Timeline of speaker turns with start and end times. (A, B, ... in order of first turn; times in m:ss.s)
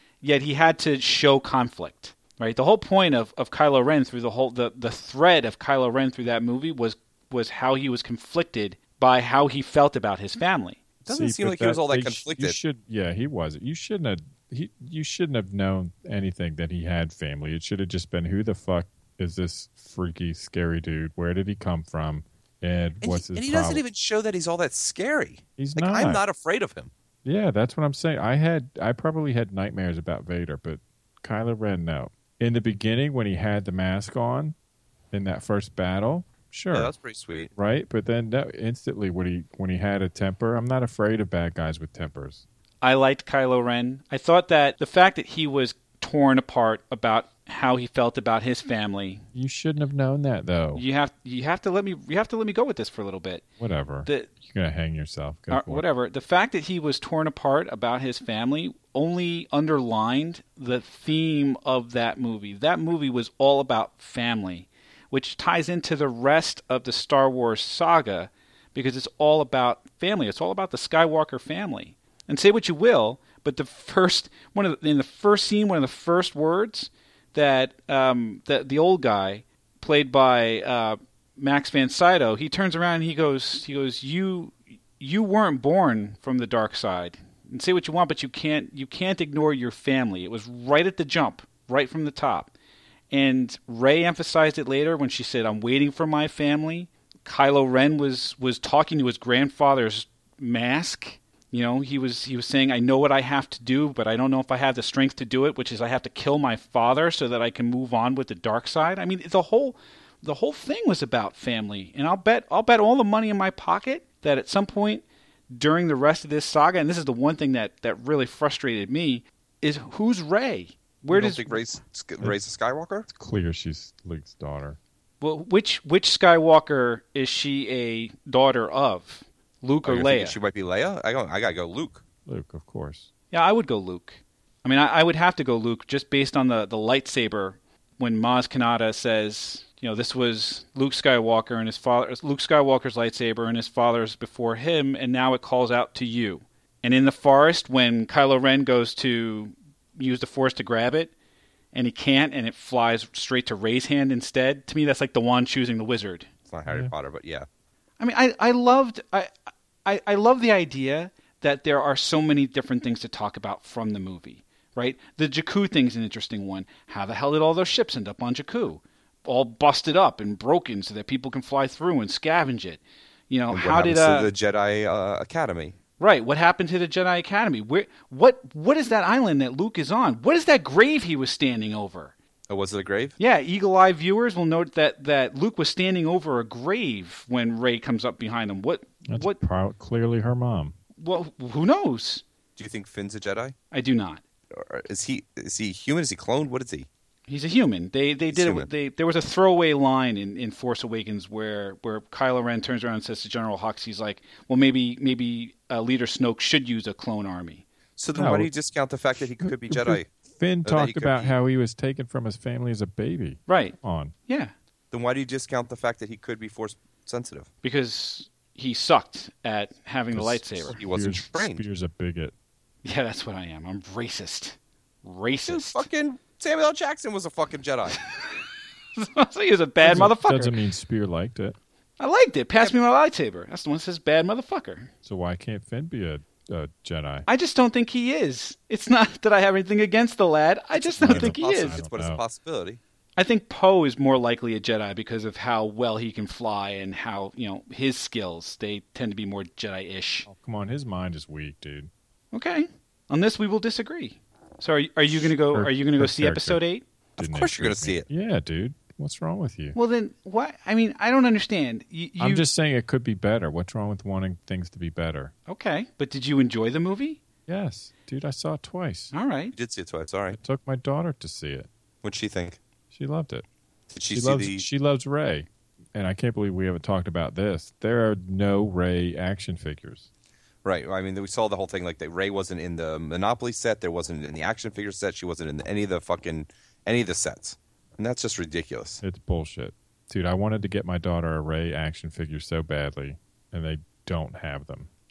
0:00.2-0:10.8 A
0:11.0-0:12.6 B
0:11.1-0:23.8 C
0:23.0-0:26.9 B
0:25.6-0:26.2 C
0:27.2-0:34.6 C
0:35.1-0:36.9 C
0:36.7-0:37.5 B
0:37.5-0:42.4 C
0:42.8-0:49.3 A
0:49.3-0:50.8 C
0:50.8-0:53.4 A
0:53.6-0:55.8 C
0:54.0-0:54.3 A
0:55.5-1:32.5 A
1:33.1-2:01.6 A
2:01.1-2:03.1 B
2:03.1-2:04.8 C
2:05.2-2:10.4 A
2:09.8-2:12.0 B
2:12.3-2:13.1 C
2:13.3-2:31.1 A
2:31.7-2:36.3 A
2:36.5-2:37.5 B
2:36.7-2:36.9 C
2:38.0-2:39.3 A
2:39.8-2:54.3 A
2:53.5-2:55.8 B
2:56.0-3:02.2 A
3:02.5-3:03.2 B
3:03.2-3:09.4 A
3:09.1-3:10.8 C
3:11.0-3:12.2 A
3:12.6-3:13.6 B
3:13.7-3:14.2 A
3:14.5-3:16.9 B
3:17.3-3:27.7 A
3:18.3-3:18.7 B
3:28.0-3:30.1 B
3:28.2-3:28.5 C
3:29.4-3:34.1 C
3:30.6-3:31.3 B
3:33.5-3:33.8 A
3:34.3-3:34.5 A
3:34.9-3:37.5 B
3:37.6-3:40.8 A
3:40.1-3:42.3 C
3:40.7-3:41.6 B
3:42.8-3:45.9 A
3:45.5-3:48.0 B
3:49.0-3:50.6 A
3:49.8-3:51.6 C
3:52.0-3:54.9 A
3:55.0-3:57.3 C
3:57.3-4:01.8 A
4:00.8-4:02.8 B
4:01.0-4:02.2 C
4:03.2-4:10.3 A
4:10.3-4:11.9 C
4:12.3-4:16.9 A
4:15.5-4:16.6 C
4:17.2-4:18.1 B
4:17.2-4:19.8 C
4:19.8-4:22.4 A
4:22.2-4:25.3 C
4:25.5-4:27.2 A
4:27.5-4:29.1 C
4:29.1-4:29.5 A
4:29.5-4:30.4 B
4:30.3-4:31.7 C
4:32.0-4:32.6 B
4:32.9-4:33.4 C
4:33.9-4:34.7 B
4:34.1-4:40.1 C
4:40.6-4:49.0 B
4:49.0-4:54.9 C